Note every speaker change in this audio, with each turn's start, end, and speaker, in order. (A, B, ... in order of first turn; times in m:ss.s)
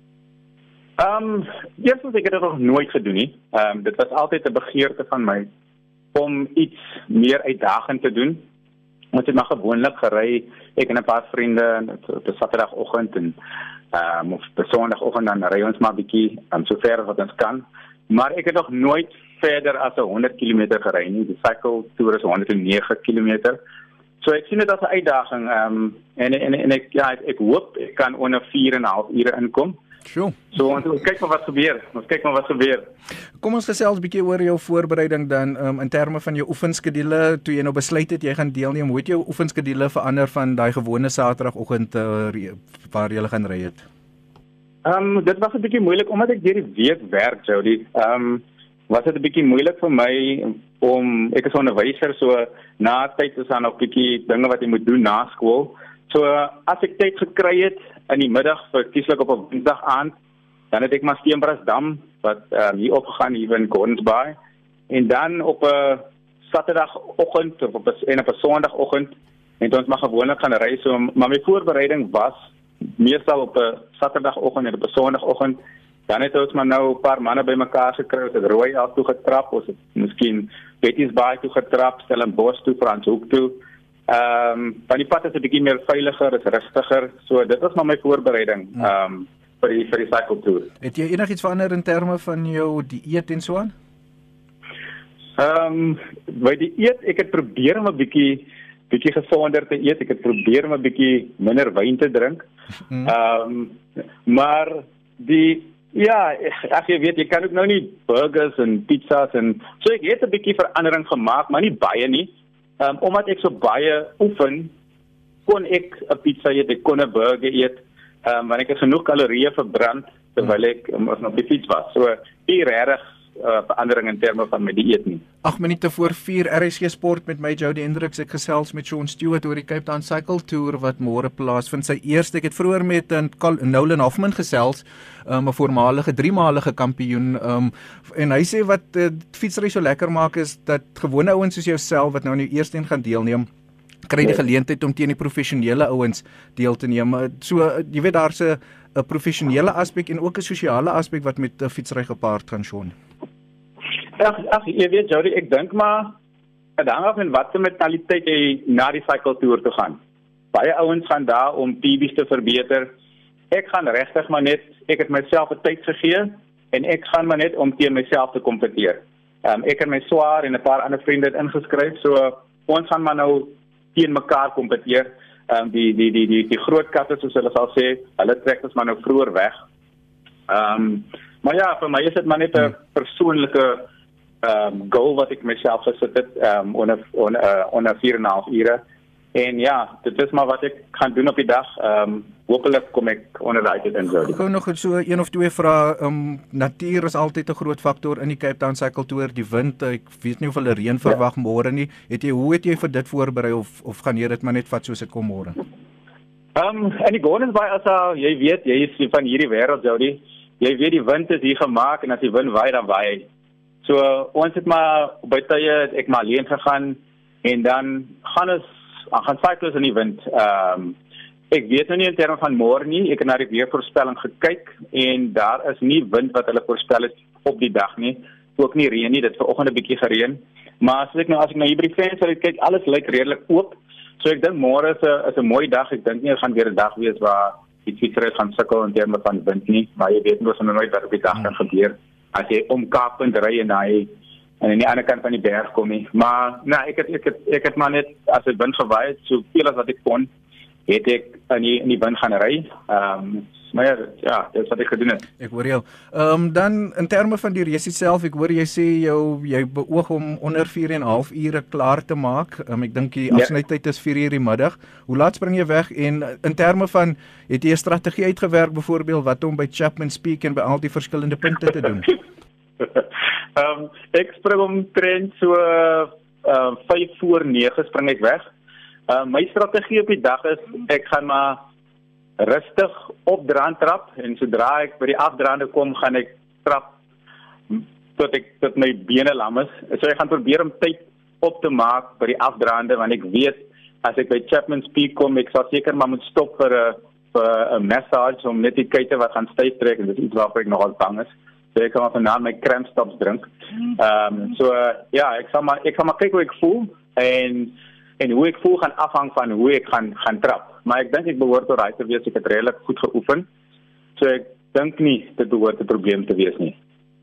0:01.0-0:05.5 A
0:06.1-0:08.4 A
0:09.1-0:13.4 A
0:13.9-0:23.6 A
0:24.2-0:29.8 A
0:30.1-0:30.4 B
0:30.5-0:32.9 A
0:33.4-0:43.8 B
0:44.8-1:00.1 A
1:00.7-1:04.4 A
1:04.9-1:12.4 A
1:13.0-1:30.7 A
1:30.8-1:33.7 B
1:35.4-1:42.4 A
1:43.0-1:54.7 A
1:55.5-2:05.2 A
2:05.4-2:23.5 B
2:24.1-2:32.9 B
2:34.2-2:36.2 A
2:36.8-2:40.0 A
2:40.5-2:42.9 A
2:43.5-2:59.6 A
3:00.5-3:03.9 A
3:04.4-3:08.8 A
3:09.4-3:14.4 A
3:14.2-3:25.6 B
3:26.6-3:33.3 A
3:33.8-3:41.0 A
3:41.5-4:04.1 A
4:04.6-4:10.3 A
4:10.9-4:15.3 A
4:15.4-4:32.2 B
4:33.6-4:38.4 A
4:39.1-4:41.6 A
4:42.4-4:47.0 A
4:47.7-5:13.5 A
5:14.2-5:16.8 A